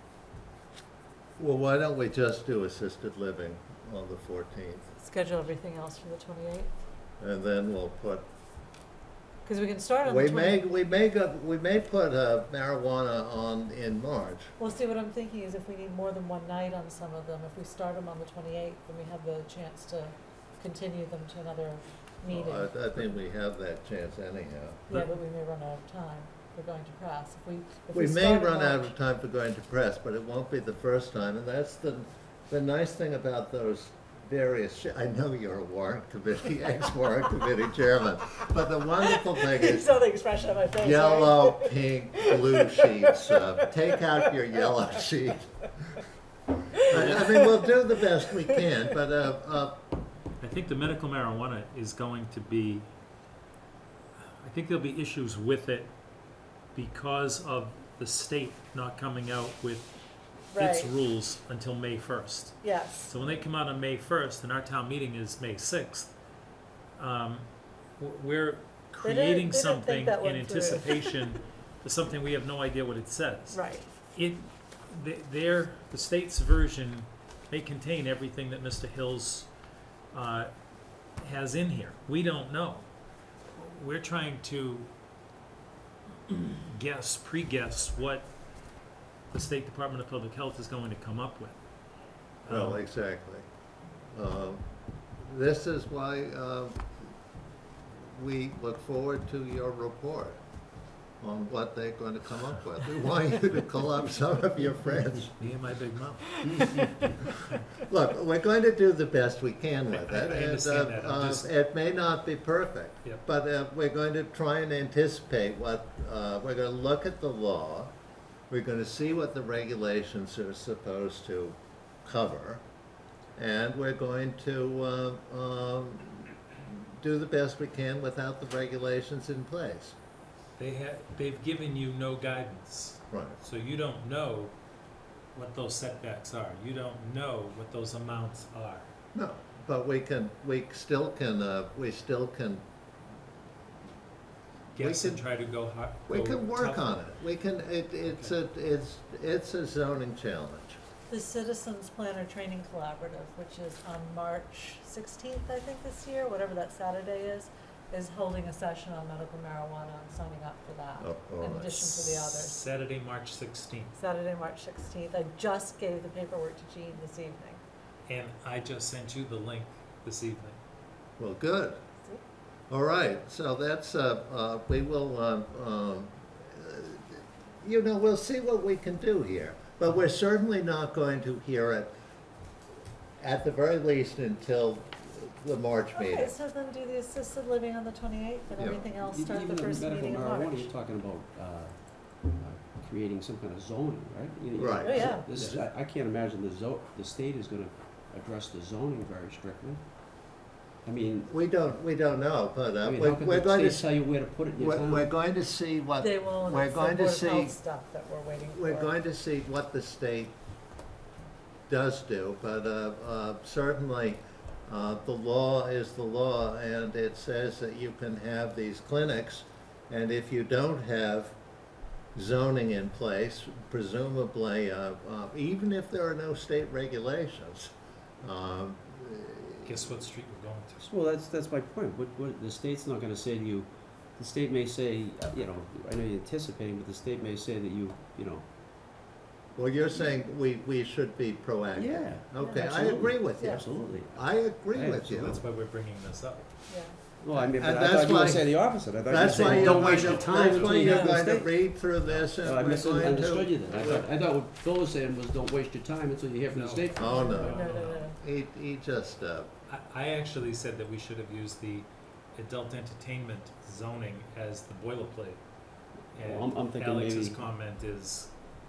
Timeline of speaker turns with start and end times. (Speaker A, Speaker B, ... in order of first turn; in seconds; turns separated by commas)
Speaker A: 1.4-4.9, Speaker B: 5.0-6.7, Speaker A: 7.2-8.2, Speaker B: 9.4-10.6, Speaker A: 10.0-14.5, Speaker B: 14.6-23.0, Speaker A: 22.3-24.9, Speaker B: 24.9-28.9, Speaker A: 27.9-39.9, Speaker B: 39.0-43.4, Speaker A: 40.8-45.5, Speaker B: 44.0-44.7, Speaker B: 46.8-47.6, Speaker A: 46.9-49.8, Speaker C: 50.4-52.9, Speaker C: 54.4-55.9, Speaker C: 56.7-59.9, Speaker B: 60.5-60.9, Speaker C: 60.6-66.1, Speaker B: 62.6-63.1, Speaker C: 67.0-67.5, Speaker C: 68.0-73.6, Speaker B: 69.0-71.3, Speaker B: 73.5-73.9, Speaker C: 74.1-79.5, Speaker C: 80.1-80.5, Speaker C: 81.2-82.9, Speaker C: 83.6-84.9, Speaker C: 86.3-88.3, Speaker C: 89.3-91.5, Speaker C: 92.5-92.8, Speaker A: 92.5-93.4, Speaker A: 94.1-94.6, Speaker A: 95.2-96.8, Speaker A: 97.9-100.4, Speaker A: 101.2-105.3, Speaker C: 105.4-107.1, Speaker B: 106.6-106.8, Speaker A: 107.8-117.9, Speaker C: 109.9-111.5, Speaker A: 118.5-122.6, Speaker A: 123.4-129.9, Speaker C: 130.6-134.6, Speaker A: 133.1-133.4, Speaker C: 135.3-138.9, Speaker A: 139.1-142.6, Speaker C: 144.8-147.1, Speaker A: 144.8-145.3, Speaker A: 146.1-150.8, Speaker C: 148.1-148.3, Speaker B: 151.1-162.6, Speaker A: 161.0-161.9, Speaker C: 161.8-164.0, Speaker B: 164.0-167.6, Speaker C: 168.1-170.6, Speaker A: 171.2-171.8, Speaker A: 172.7-181.9, Speaker A: 183.2-186.3, Speaker B: 185.9-190.7, Speaker A: 188.6-188.9, Speaker D: 188.9-199.8, Speaker A: 194.6-195.2, Speaker B: 194.8-195.3, Speaker C: 195.2-195.7, Speaker D: 200.8-201.3, Speaker A: 201.3-203.9, Speaker D: 202.8-205.1, Speaker A: 204.6-207.6, Speaker B: 206.0-209.0, Speaker A: 208.5-210.3, Speaker A: 211.7-221.4, Speaker A: 222.2-227.7, Speaker A: 228.2-229.7, Speaker C: 229.6-230.9, Speaker D: 230.8-238.5, Speaker A: 239.6-245.4, Speaker D: 241.8-245.4, Speaker B: 242.4-242.7, Speaker B: 243.3-243.7, Speaker C: 244.9-246.5, Speaker B: 246.7-247.0, Speaker D: 247.2-251.6, Speaker A: 247.4-254.1, Speaker C: 249.2-250.9, Speaker B: 250.8-251.2, Speaker C: 252.0-252.3, Speaker D: 252.4-257.1, Speaker C: 256.5-258.1, Speaker A: 257.0-259.5, Speaker B: 257.0-258.2, Speaker C: 259.7-265.4, Speaker C: 266.1-268.3, Speaker D: 266.2-267.4